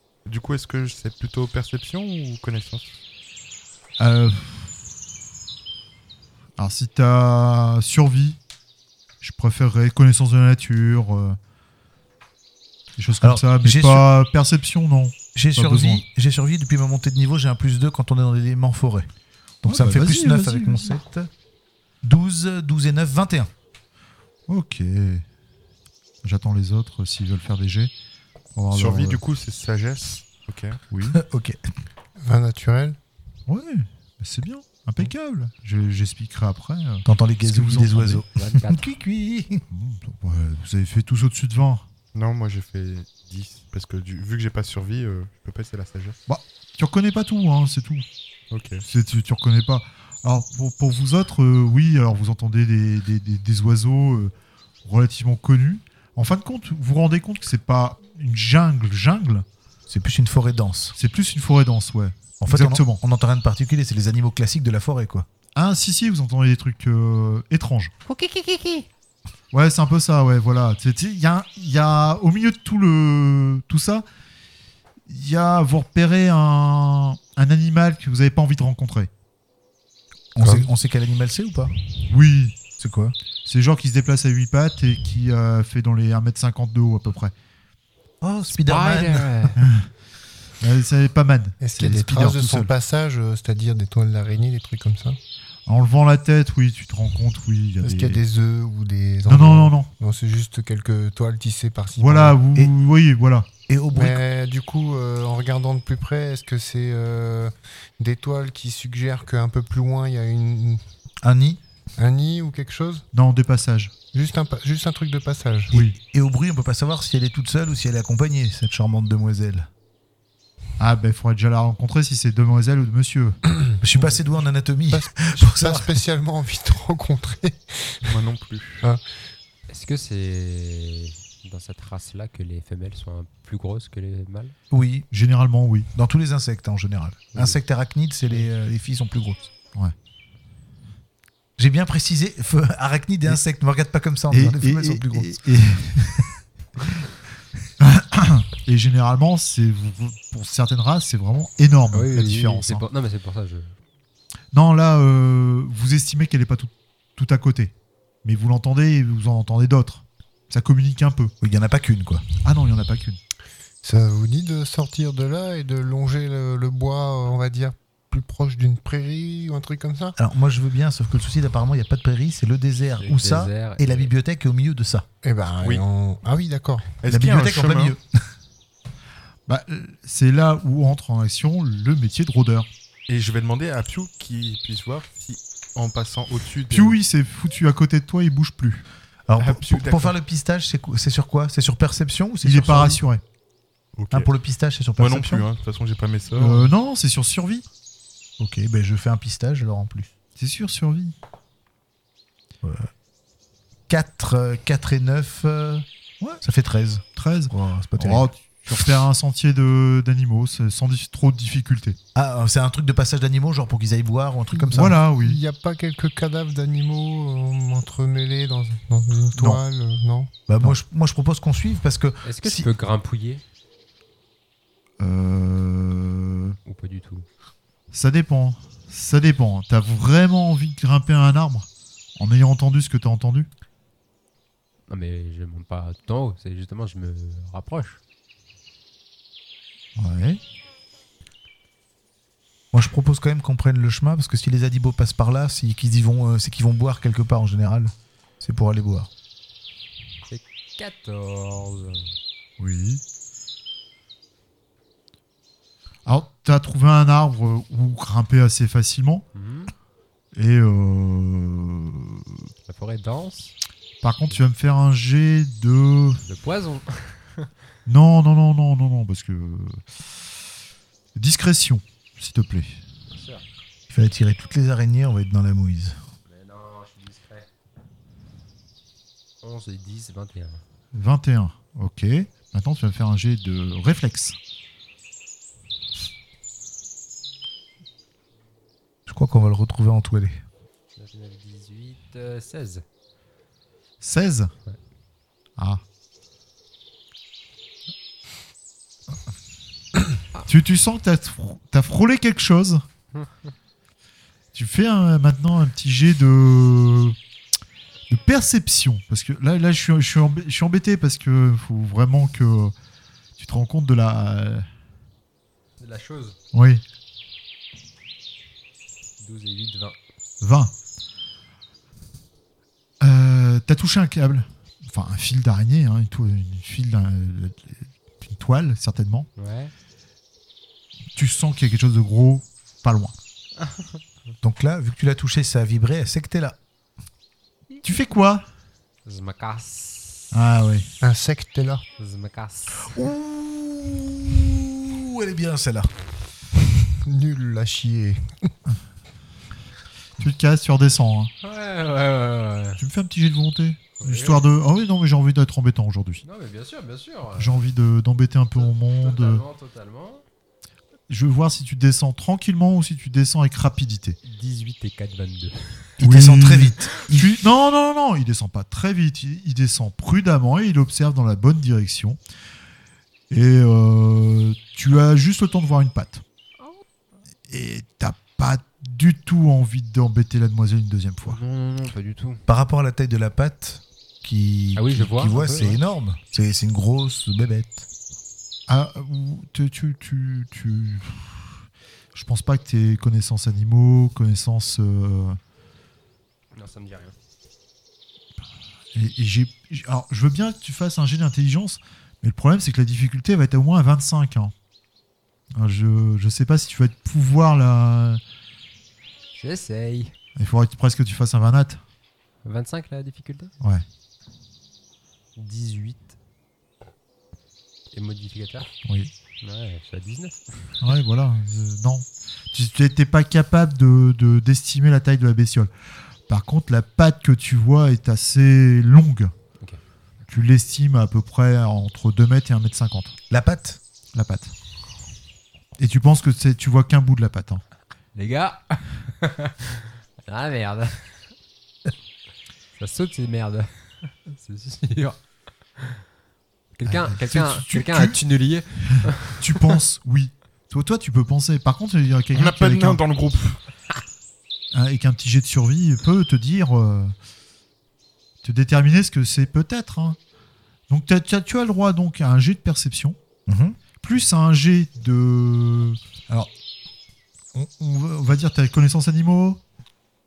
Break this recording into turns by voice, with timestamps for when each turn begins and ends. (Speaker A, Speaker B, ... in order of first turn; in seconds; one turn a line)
Speaker A: 0.2-3.0
Speaker B: 4.0-4.7
Speaker B: 6.6-8.4
Speaker B: 9.2-11.4
Speaker B: 13.0-16.0
Speaker C: 13.2-14.1
Speaker C: 15.3-19.1
Speaker B: 19.6-21.0
Speaker C: 19.6-21.3
Speaker C: 22.0-23.5
Speaker B: 24.5-25.2
Speaker B: 26.2-27.9
Speaker B: 28.6-29.2
Speaker A: 28.7-30.8
Speaker B: 30.9-31.2
Speaker C: 31.1-31.6
Speaker D: 32.2-33.0
Speaker B: 33.5-38.2
Speaker C: 37.0-39.6
Speaker E: 38.4-38.9
Speaker B: 39.7-41.9
Speaker A: 42.1-46.2
Speaker B: 46.3-48.0
Speaker A: 48.5-48.8
Speaker B: 48.9-54.3
Speaker B: 54.9-59.5
Speaker C: 59.9-61.0
Speaker B: 61.0-63.0
Speaker C: 62.4-65.3
Speaker B: 65.5-68.0
Speaker E: 68.1-68.9
Speaker B: 69.5-74.0
Speaker B: 75.1-79.1
Speaker C: 80.3-81.7
Speaker D: 80.4-80.7
Speaker B: 82.1-82.6
Speaker C: 82.8-83.2
Speaker B: 83.5-87.3
Speaker C: 88.2-89.3
Speaker E: 88.5-89.6
Speaker B: 89.6-89.9
Speaker B: 90.6-92.7
Speaker D: 91.6-95.2
Speaker B: 95.7-98.2
Speaker D: 97.8-102.4
Speaker B: 99.3-99.9
Speaker B: 102.0-103.5
Speaker C: 103.7-104.2
Speaker D: 103.9-110.8
Speaker C: 111.2-111.6
Speaker D: 112.0-113.0
Speaker B: 113.1-113.9
Speaker D: 114.1-115.8
Speaker B: 115.7-116.0
Speaker C: 115.7-119.7
Speaker B: 120.8-123.4
Speaker C: 123.8-126.0
Speaker D: 124.9-128.1
Speaker A: 128.0-128.8
Speaker E: 129.7-134.5
Speaker C: 134.7-135.1
Speaker B: 135.1-135.9
Speaker C: 135.9-139.5
Speaker C: 141.6-145.4
Speaker B: 144.3-146.3
Speaker B: 147.8-152.8
Speaker E: 151.9-153.7
Speaker B: 154.5-157.7
Speaker B: 158.2-161.3
Speaker C: 161.4-162.2
Speaker B: 162.4-163.2
Speaker D: 163.8-170.2
Speaker C: 170.2-175.1
Speaker E: 173.0-174.1
Speaker D: 175.2-177.0
Speaker A: 177.0-178.0
Speaker C: 177.1-178.2
Speaker B: 179.5-182.7
Speaker A: 183.1-187.0
Speaker B: 186.7-188.8
Speaker C: 189.3-193.0
Speaker A: 189.4-190.2
Speaker B: 192.4-193.2
Speaker A: 194.0-194.3
Speaker C: 194.1-195.5
Speaker A: 195.0-196.7
Speaker B: 196.3-197.7
Speaker C: 198.4-200.1
Speaker B: 200.4-201.1
Speaker C: 202.6-202.9
Speaker C: 203.9-208.3
Speaker B: 207.2-212.0
Speaker C: 212.1-215.0
Speaker D: 214.6-220.3
Speaker B: 214.7-215.4
Speaker B: 219.4-219.6
Speaker C: 220.5-222.7
Speaker E: 222.2-223.4
Speaker B: 225.0-226.6
Speaker E: 226.7-227.2
Speaker B: 227.9-233.5
Speaker E: 234.9-238.0
Speaker B: 240.0-240.4
Speaker C: 242.7-249.1
Speaker E: 250.3-252.1
Speaker B: 252.6-253.0
Speaker B: 256.1-259.2
Speaker E: 259.3-259.7
Speaker B: 260.4-262.4
Speaker E: 262.6-263.6
Speaker B: 264.0-266.2
Speaker E: 266.2-267.5
Speaker B: 267.9-269.9
Speaker B: 271.2-272.8
Speaker E: 273.1-273.4
Speaker C: 273.9-276.0
Speaker E: 276.2-277.5
Speaker E: 279.4-280.6
Speaker B: 280.9-284.4
Speaker C: 289.1-290.4
Speaker E: 291.0-292.8
Speaker B: 294.0-294.5
Speaker B: 295.6-295.8
Speaker B: 300.5-302.9
Speaker E: 303.1-303.5
Speaker B: 304.5-307.2
Speaker B: 308.1-312.7
Speaker B: 313.4-314.7
Speaker E: 315.8-316.4
Speaker B: 316.5-316.8
Speaker E: 319.2-320.0
Speaker B: 320.4-320.7
Speaker B: 323.0-329.3
Speaker E: 329.4-329.7
Speaker B: 331.2-333.1
Speaker E: 333.6-334.0
Speaker C: 334.4-336.6
Speaker B: 337.8-338.5
Speaker E: 339.1-340.3
Speaker B: 340.3-340.9
Speaker D: 341.0-341.8
Speaker E: 342.0-342.9
Speaker C: 342.9-345.9
Speaker D: 347.0-348.5
Speaker B: 350.2-351.3
Speaker E: 351.4-352.8
Speaker B: 352.8-356.2
Speaker E: 354.0-354.4
Speaker E: 356.2-357.6
Speaker B: 357.4-359.4
Speaker E: 358.6-360.2
Speaker B: 361.1-364.2
Speaker E: 364.2-365.9
Speaker C: 366.0-367.4
Speaker B: 366.0-372.2
Speaker B: 373.3-376.2
Speaker B: 377.5-381.4
Speaker E: 381.2-382.4
Speaker C: 382.5-387.9
Speaker E: 384.8-385.8
Speaker B: 388.7-391.6
Speaker B: 392.1-395.4
Speaker E: 396.6-397.2
Speaker B: 398.9-404.5
Speaker B: 405.6-408.2
Speaker E: 409.4-410.1
Speaker B: 410.4-411.8
Speaker E: 412.4-413.5
Speaker E: 415.4-416.1
Speaker E: 417.9-418.7
Speaker B: 418.9-419.1
Speaker E: 419.4-420.8
Speaker B: 420.8-425.7
Speaker B: 426.3-429.3
Speaker B: 430.3-433.2
Speaker C: 433.3-433.8
Speaker B: 434.1-434.5
Speaker B: 435.8-437.6
Speaker E: 438.1-441.3
Speaker E: 442.8-445.2
Speaker E: 446.8-449.7
Speaker B: 446.9-448.2
Speaker B: 448.9-453.0
Speaker A: 452.3-453.6
Speaker B: 454.7-457.1
Speaker B: 458.4-460.2
Speaker B: 460.9-463.2
Speaker C: 463.5-463.8
Speaker B: 464.0-466.5
Speaker B: 467.6-469.6